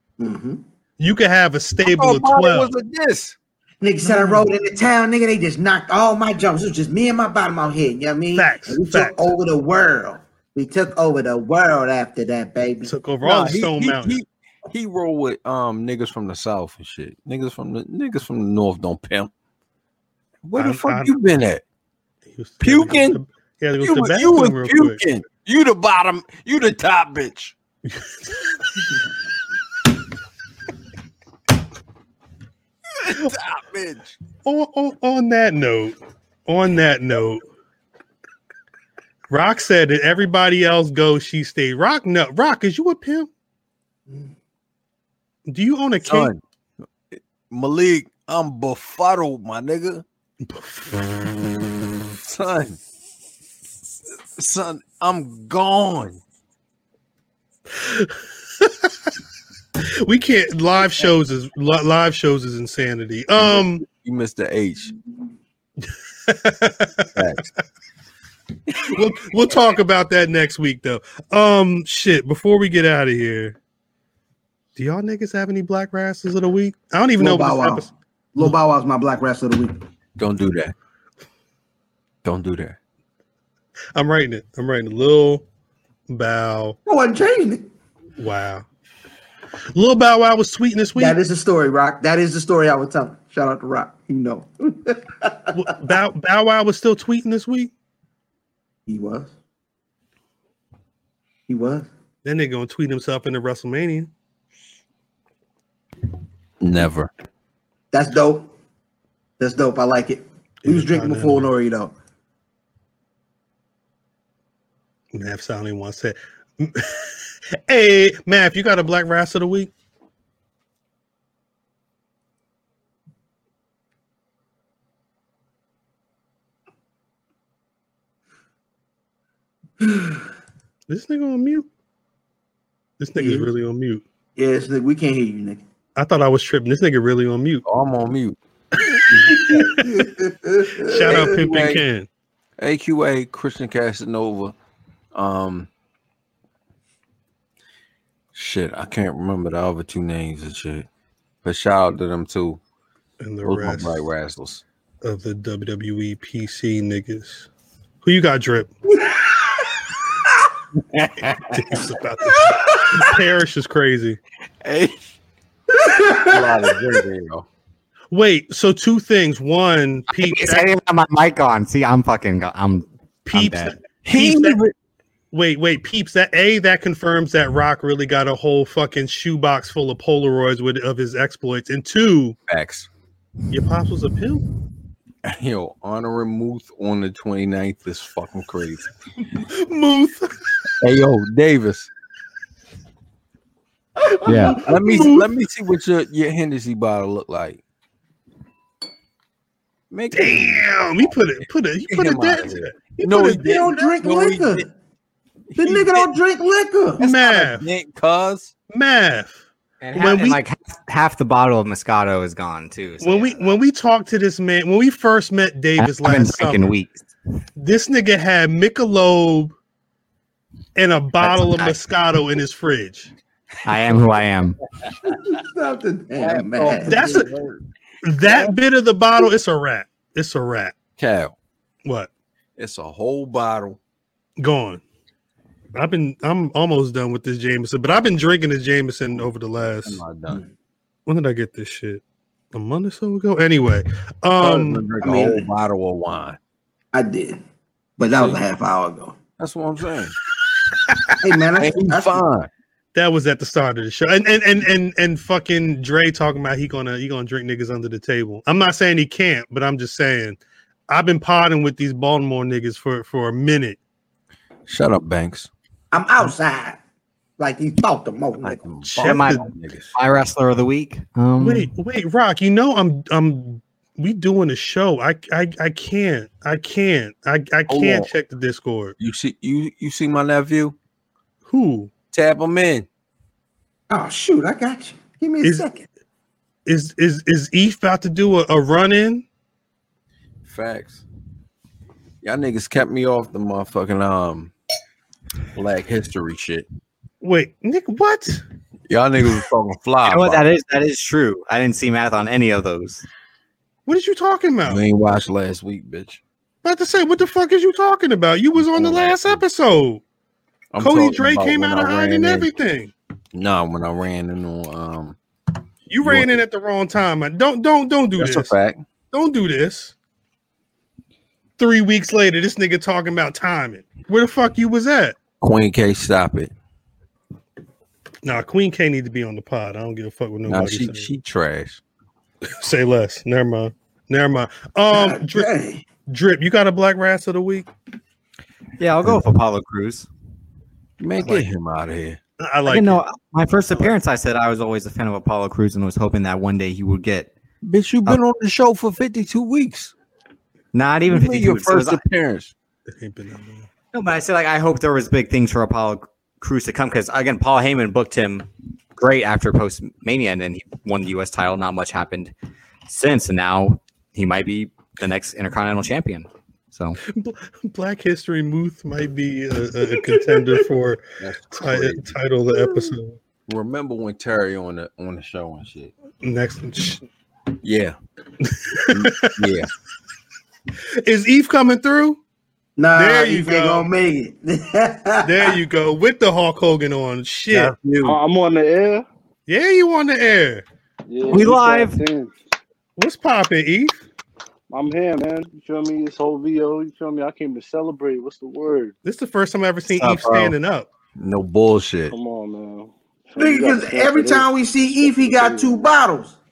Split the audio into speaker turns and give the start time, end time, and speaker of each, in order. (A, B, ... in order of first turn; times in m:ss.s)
0:00.2-0:00.6 A
0:01.0-0:02.7 B
0:01.8-0:03.4 C
0:03.8-0:12.9 A
0:08.4-0:09.3 B
0:12.9-0:14.2 B
0:13.2-0:19.3 C
0:20.4-0:21.6 C
0:20.6-0:21.1 B
0:22.3-0:25.0 B
0:22.6-0:23.2 C
0:23.8-0:27.6 C
0:33.0-0:34.2 C
0:34.4-0:37.5 B
0:39.3-0:43.3 B
0:45.5-0:46.3 B
0:46.0-0:46.4 C
0:47.1-0:50.0 C
0:50.4-0:51.1 B
0:52.1-0:52.8 C
0:54.4-0:56.2 C
0:57.8-0:58.9 B
1:00.0-1:03.8 B
1:03.4-1:04.9 C
1:05.8-1:07.1 B
1:07.2-1:07.5 C
1:08.7-1:13.6 B
1:14.8-1:17.9 B
1:17.2-1:19.8 A
1:20.2-1:20.8 C
1:22.2-1:22.8 C
1:24.0-1:25.4 B
1:26.1-1:26.8 B
1:26.9-1:27.7 A
1:28.2-1:28.6 B
1:29.8-1:31.2 B
1:31.0-1:35.6 A
1:35.5-1:37.7 B
1:38.9-1:39.3 A
1:41.5-1:41.9 A
1:42.2-1:44.1 B
1:46.6-1:47.1 C
1:47.9-1:48.5 A
1:49.4-1:51.9 A
1:50.6-1:51.5 B
1:55.1-1:57.1 B
1:57.7-1:59.7 B
2:09.8-2:10.2 A
2:10.9-2:11.7 B
2:13.0-2:14.0 B
2:13.2-2:13.5 A
2:14.4-2:15.6 A
2:16.0-2:17.6 B
2:17.7-2:18.4 C
2:19.0-2:19.7 C
2:19.3-2:21.4 A
2:19.6-2:19.9 B
2:20.8-2:22.1 B
2:21.1-2:21.8 C
2:22.6-2:24.6 C
2:25.1-2:25.7 C
2:28.3-2:30.9 C
2:31.4-2:32.6 C
2:33.2-2:34.0 B
2:33.4-2:34.6 C
2:35.0-2:37.5 B
2:38.0-2:38.7 B
2:40.8-2:43.0 C
2:41.5-2:44.2 B
2:44.6-2:45.1 C
2:45.7-2:46.8 A
2:46.3-2:47.5 C
2:48.1-2:50.7 B
2:50.1-2:53.8 D
2:53.2-2:54.6 B
2:54.0-2:54.7 C
2:55.3-3:02.4 B
3:02.5-3:02.9 C
3:03.5-3:04.4 B
3:05.2-3:08.9 C
3:09.4-3:10.3 B
3:10.8-3:11.9 C
3:14.0-3:15.2 A
3:14.2-3:14.6 D
3:14.4-3:17.6 C
3:19.9-3:24.7 C
3:20.1-3:23.5 B
3:23.4-3:24.7 A
3:25.5-3:26.1 C
3:25.6-3:27.0 A
3:27.0-3:28.5 C
3:27.0-3:27.6 B
3:28.7-3:29.4 B
3:29.8-3:33.4 D
3:30.0-3:30.4 B
3:33.0-3:36.7 B
3:35.8-3:37.0 D
3:37.6-3:39.5 B
3:40.8-3:43.1 B
3:41.2-3:41.8 D
3:43.6-3:44.6 D
3:45.0-3:47.3 A
3:46.2-3:47.6 C
3:46.9-3:47.3 B
3:48.0-3:50.8 B
3:48.2-3:48.5 C
3:51.0-3:51.4 C
3:51.8-3:52.1 B
3:52.6-3:53.8 C
3:54.4-3:54.8 B
3:55.8-4:00.0 B
3:59.2-4:00.4 C
4:01.1-4:02.0 B
4:02.5-4:04.9 B
4:04.4-4:06.4 C
4:05.0-4:05.5 A
4:06.9-4:07.4 A
4:08.0-4:09.2 A
4:08.1-4:08.4 C
4:09.4-4:10.2 C
4:11.2-4:12.2 A
4:11.6-4:12.5 C
4:12.9-4:23.8 B
4:24.7-4:25.5 C
4:25.9-4:26.8 A
4:27.4-4:28.6 A
4:28.4-4:29.9 C
4:28.8-4:29.4 B
4:29.0-4:29.4 D
4:29.9-4:31.7 D
4:31.4-4:39.0 B
4:37.7-4:38.1 C
4:39.0-4:40.8 C
4:41.4-4:41.9 B
4:42.1-4:42.9 C
4:43.9-4:45.8 A
4:45.4-4:45.7 B
4:46.7-4:49.2 B
4:50.4-4:51.0 C
4:52.2-4:54.5 C
4:55.6-4:56.7 C
4:57.2-4:58.4 B
4:58.9-5:00.4 C
5:00.0-5:03.1 D
5:03.9-5:04.8 B
5:04.6-5:06.2 C
5:06.6-5:10.0 B
5:08.6-5:09.4 C
5:10.7-5:12.5 C
5:10.8-5:12.9 B
5:13.3-5:15.2 C
5:15.9-5:18.5 B
5:16.0-5:16.4 C
5:18.2-5:18.8 C
5:19.1-5:20.0 B
5:21.6-5:25.2 B
5:25.4-5:26.5 C
5:28.2-5:31.1 B
5:30.5-5:31.8 C
5:32.5-5:35.5 B
5:34.9-5:35.9 A
5:36.1-5:37.7 B
5:38.8-5:40.1 D
5:41.0-5:42.2 C
5:42.4-5:43.0 B
5:42.7-5:47.3 D
5:47.6-5:49.9 C
5:50.7-5:52.0 D
5:51.1-5:52.5 C
5:52.9-5:53.7 B
5:53.9-6:02.3 D
6:02.9-6:07.0 D
6:07.1-6:13.2 B
6:11.2-6:12.2 C
6:12.6-6:12.9 A
6:13.5-6:15.9 C
6:16.2-6:17.0 B
6:17.6-6:18.0 C
6:18.4-6:19.4 B
6:18.9-6:19.7 C
6:21.0-6:22.2 B
6:22.8-6:25.6 A
6:23.0-6:23.9 B
6:25.2-6:27.8 B
6:27.5-6:28.2 C
6:28.0-6:29.0 E
6:29.5-6:30.6 B
6:31.1-6:32.3 E
6:31.3-6:32.0 D
6:33.0-6:34.0 B
6:34.7-6:39.0 E
6:39.0-6:40.9 B
6:39.9-6:40.6 D
6:41.2-6:42.2 C
6:42.1-6:44.5 E
6:43.4-6:46.4 A
6:45.0-6:45.9 E